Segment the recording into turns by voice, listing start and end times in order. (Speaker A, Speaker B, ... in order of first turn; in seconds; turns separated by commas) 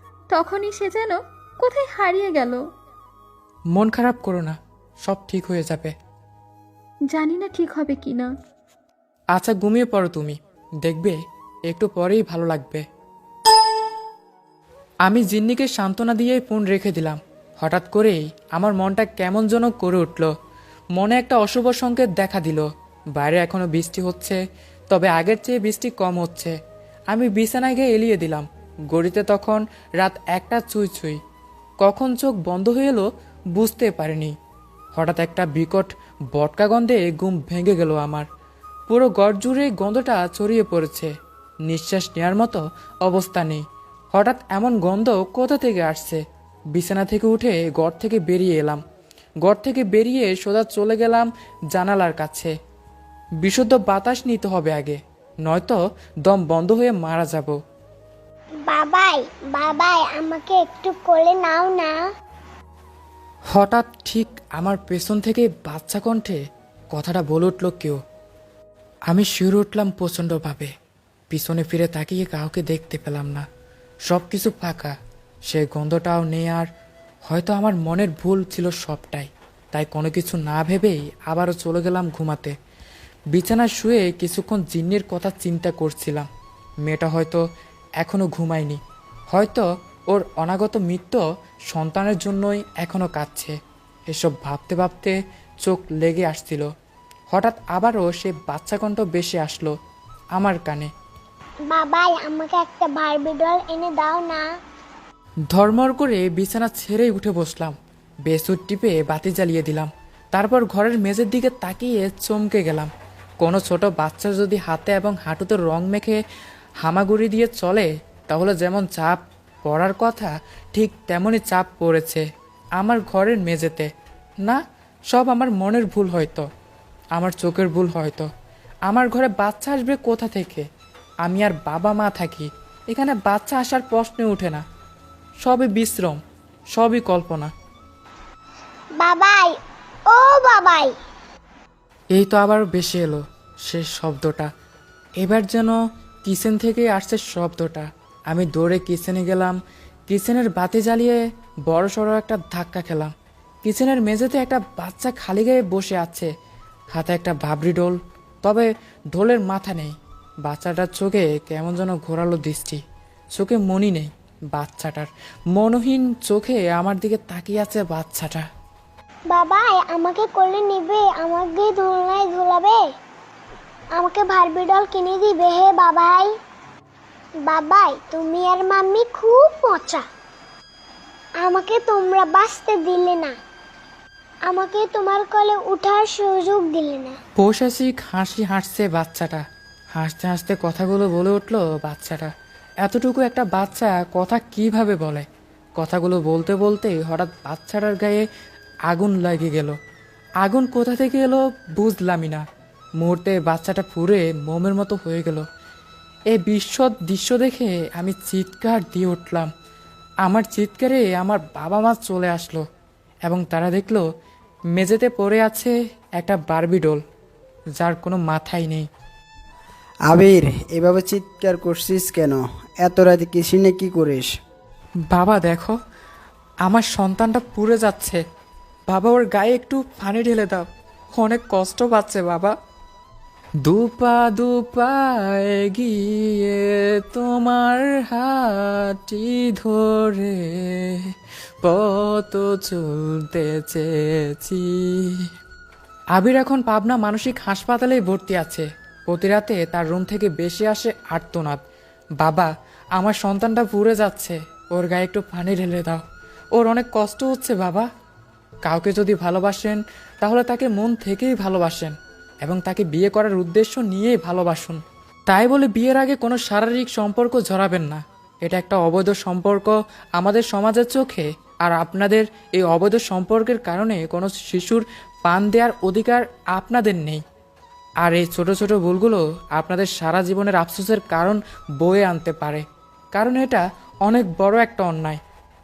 Speaker A: 0.3-2.6, Speaker B: 3.7-5.9, Speaker A: 7.1-8.3, Speaker B: 9.3-11.2, Speaker B: 11.7-12.8, Speaker B: 15.1-20.3, Speaker B: 21.0-24.4, Speaker B: 24.9-26.5, Speaker B: 27.1-31.2, Speaker B: 31.8-34.3, Speaker B: 34.9-38.3, Speaker B: 38.9-41.1, Speaker B: 41.7-46.2, Speaker B: 46.7-48.8, Speaker B: 49.4-52.5, Speaker B: 53.4-57.5, Speaker C: 58.7-62.0, Speaker B: 63.5-66.4, Speaker B: 66.9-68.0, Speaker B: 69.1-70.7, Speaker B: 71.3-73.4, Speaker B: 74.1-74.9, Speaker B: 75.5-76.7, Speaker B: 77.2-82.5, Speaker B: 83.3-86.3, Speaker B: 86.8-87.4, Speaker B: 88.0-93.5, Speaker B: 94.1-96.7, Speaker B: 97.3-99.7, Speaker B: 100.3-100.9, Speaker C: 101.7-104.4, Speaker B: 105.5-107.8, Speaker B: 108.3-112.9, Speaker B: 113.4-116.2, Speaker B: 116.8-122.2, Speaker B: 122.8-123.9, Speaker B: 124.4-126.5, Speaker B: 127.1-128.3, Speaker B: 128.9-130.6, Speaker B: 131.2-134.6, Speaker B: 135.4-136.2, Speaker B: 136.7-137.5, Speaker C: 139.0-139.5, Speaker C: 140.1-140.9, Speaker B: 142.1-144.5, Speaker B: 145.2-153.1, Speaker B: 153.6-156.3, Speaker B: 156.9-162.8, Speaker B: 163.3-168.4, Speaker C: 169.3-172.8, Speaker C: 173.9-176.3, Speaker C: 177.4-180.0, Speaker C: 181.4-183.3, Speaker C: 184.4-187.2, Speaker B: 187.4-189.4, Speaker B: 189.9-192.3, Speaker B: 192.8-195.2, Speaker B: 195.8-198.2, Speaker B: 198.9-199.8, Speaker B: 200.4-202.4, Speaker B: 203.0-205.4, Speaker B: 206.3-209.5, Speaker B: 210.2-212.6, Speaker B: 213.2-214.0, Speaker B: 214.7-217.0, Speaker B: 217.8-218.9, Speaker D: 220.1-224.3, Speaker B: 225.1-225.8, Speaker B: 226.6-228.2, Speaker B: 228.9-232.5, Speaker B: 233.6-241.0, Speaker B: 241.6-245.2, Speaker B: 246.1-251.6, Speaker B: 252.2-256.0, Speaker B: 256.5-257.9, Speaker B: 258.6-277.2, Speaker B: 278.0-285.2